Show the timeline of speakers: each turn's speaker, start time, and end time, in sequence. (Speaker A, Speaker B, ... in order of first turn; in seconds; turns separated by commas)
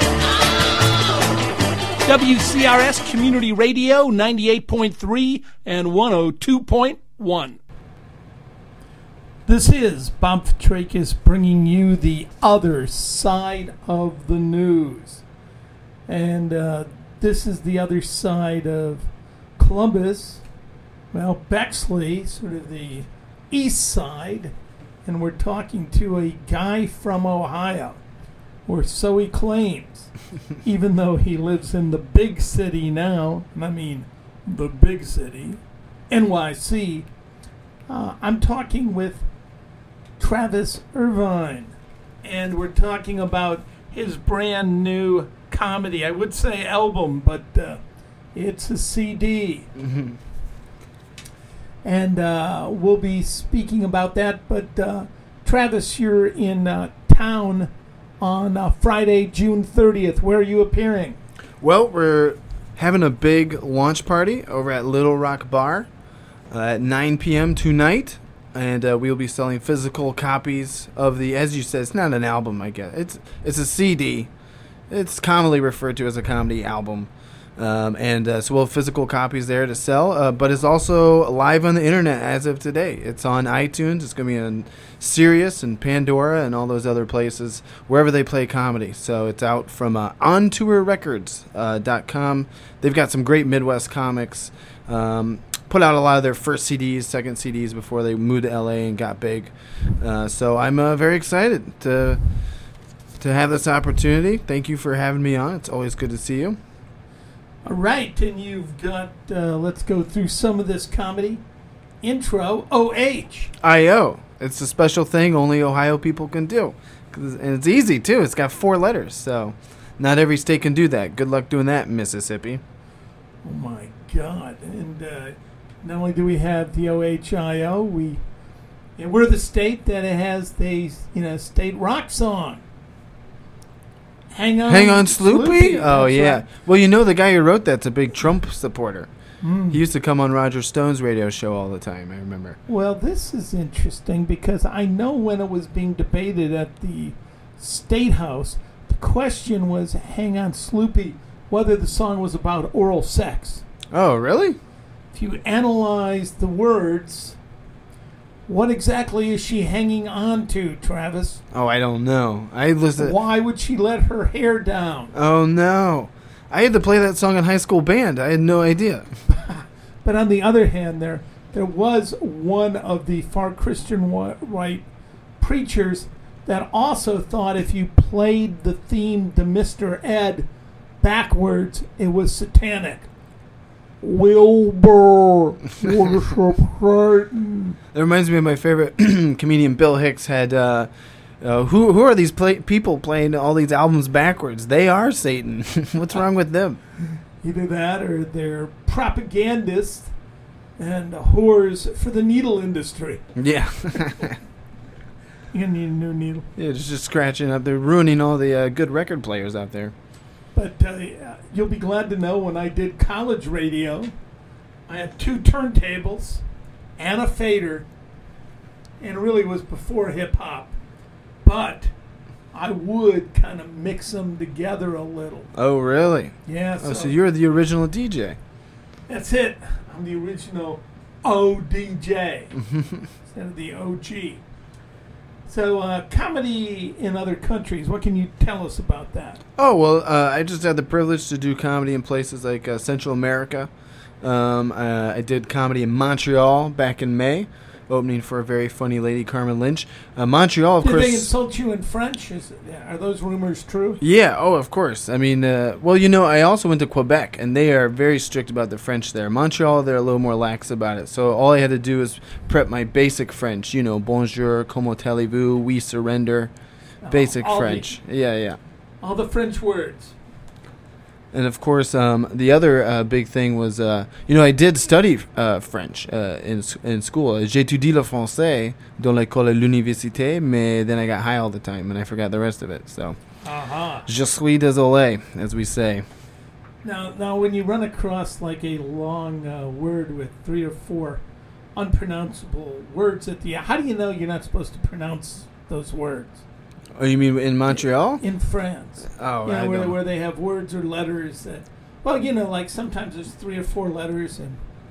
Speaker A: 2.0-7.6, Speaker A: 9.5-15.2, Speaker A: 16.1-19.1, Speaker A: 19.6-20.4, Speaker A: 21.1-24.5, Speaker A: 25.1-28.0, Speaker A: 28.7-30.1, Speaker A: 30.6-37.1, Speaker A: 37.9-39.3, Speaker A: 40.2-47.8, Speaker A: 48.4-49.7, Speaker B: 49.8-50.2, Speaker A: 51.8-57.7, Speaker A: 58.2-61.2, Speaker B: 61.6-65.9, Speaker B: 66.5-74.3, Speaker B: 74.9-102.2, Speaker B: 103.2-106.6, Speaker A: 107.7-111.4, Speaker A: 112.0-113.5, Speaker B: 113.6-122.6, Speaker A: 123.4-128.2, Speaker A: 129.0-132.6, Speaker A: 134.3-136.4, Speaker B: 134.7-139.1, Speaker A: 139.4-139.8, Speaker B: 139.7-142.6, Speaker A: 142.7-153.6, Speaker B: 153.9-154.6, Speaker A: 155.1-157.4, Speaker A: 158.5-161.4, Speaker B: 161.5-163.2, Speaker A: 163.0-165.1, Speaker B: 165.1-169.1, Speaker A: 169.3-174.8, Speaker A: 175.4-180.5, Speaker A: 181.0-183.1, Speaker A: 184.0-187.8, Speaker B: 187.9-190.9, Speaker B: 191.4-196.8, Speaker A: 197.4-200.1, Speaker A: 200.8-203.2, Speaker B: 203.3-204.4, Speaker A: 205.5-206.5, Speaker B: 206.6-209.9, Speaker A: 210.6-214.1, Speaker A: 214.9-216.4, Speaker A: 217.0-217.9, Speaker A: 219.0-220.7, Speaker A: 221.4-221.9, Speaker A: 222.5-225.5, Speaker B: 225.5-228.4, Speaker A: 226.5-227.2, Speaker A: 229.1-232.5, Speaker B: 232.6-233.1, Speaker A: 233.3-234.4, Speaker A: 235.5-239.4, Speaker B: 239.6-243.7, Speaker B: 244.2-251.3, Speaker A: 250.8-254.0, Speaker B: 254.0-266.5, Speaker A: 267.0-267.9, Speaker B: 267.1-268.6, Speaker A: 269.0-270.1, Speaker B: 271.3-283.2, Speaker A: 283.4-284.1, Speaker B: 284.1-286.0, Speaker A: 286.8-291.2, Speaker A: 291.8-296.4, Speaker B: 297.0-298.2, Speaker A: 298.2-304.6, Speaker B: 299.1-300.0